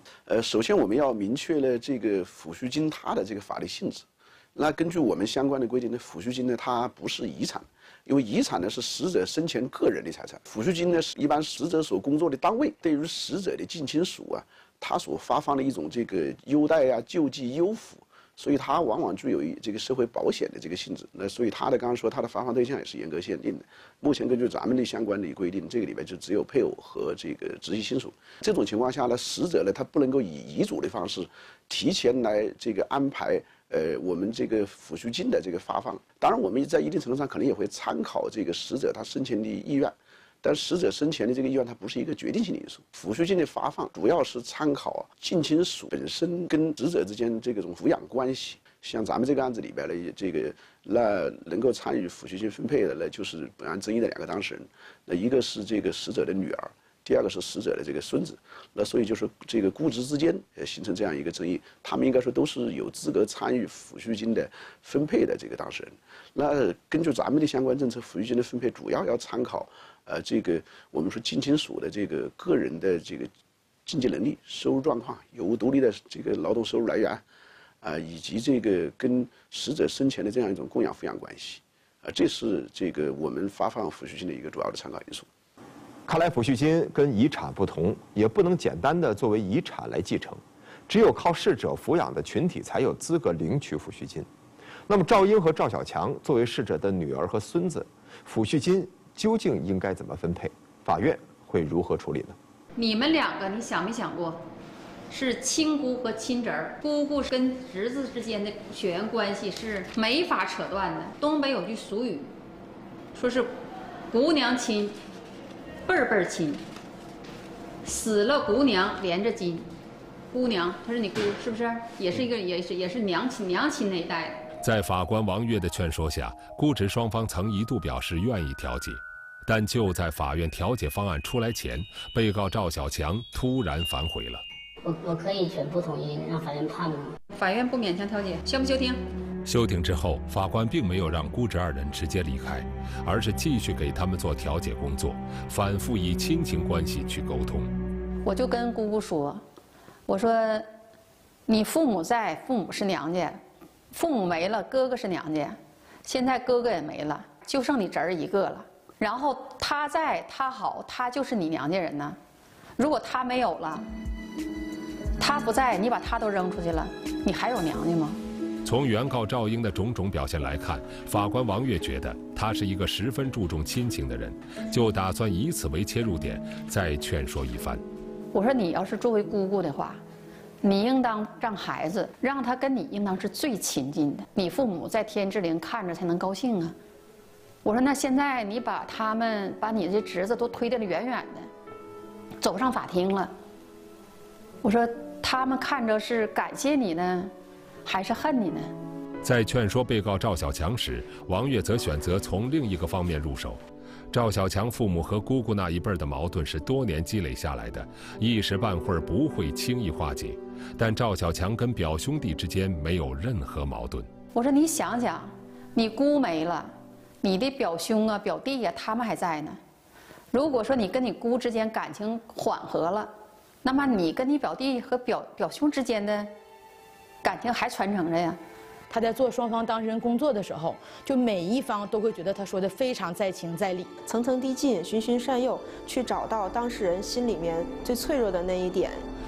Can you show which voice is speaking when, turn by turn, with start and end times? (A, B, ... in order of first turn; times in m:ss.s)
0:00.3-1:13.3 A
1:13.8-1:17.2 A
1:17.8-1:25.3 A
1:26.1-1:34.3 B
1:34.9-1:42.4 B
1:42.8-1:44.4 C
1:45.1-1:52.3 C
1:53.1-1:53.5 C
1:54.1-1:55.0 C
1:55.9-1:56.6 C
1:57.8-1:59.7 C
2:00.3-2:04.4 C
2:04.6-2:14.4 D
2:14.8-2:17.2 E
2:17.3-2:19.0 C
2:19.4-2:27.7 D
2:28.2-2:29.4 C
2:30.1-2:30.7 C
2:31.5-2:42.2 C
2:42.8-2:43.8 C
2:45.2-2:48.2 C
2:48.6-2:57.8 D
2:58.3-3:00.0 C
3:00.6-3:06.7 C
3:07.6-3:11.5 C
3:12.4-3:13.3 C
3:14.6-3:17.3 C
3:17.8-3:18.7 C
3:19.2-3:23.6 D
3:24.1-3:34.1 D
3:34.3-3:36.7 C
3:37.2-3:39.6 C
3:40.3-3:43.1 C
3:43.6-3:46.3 C
3:47.2-3:48.4 C
3:48.9-3:53.9 F
3:54.1-3:59.0 G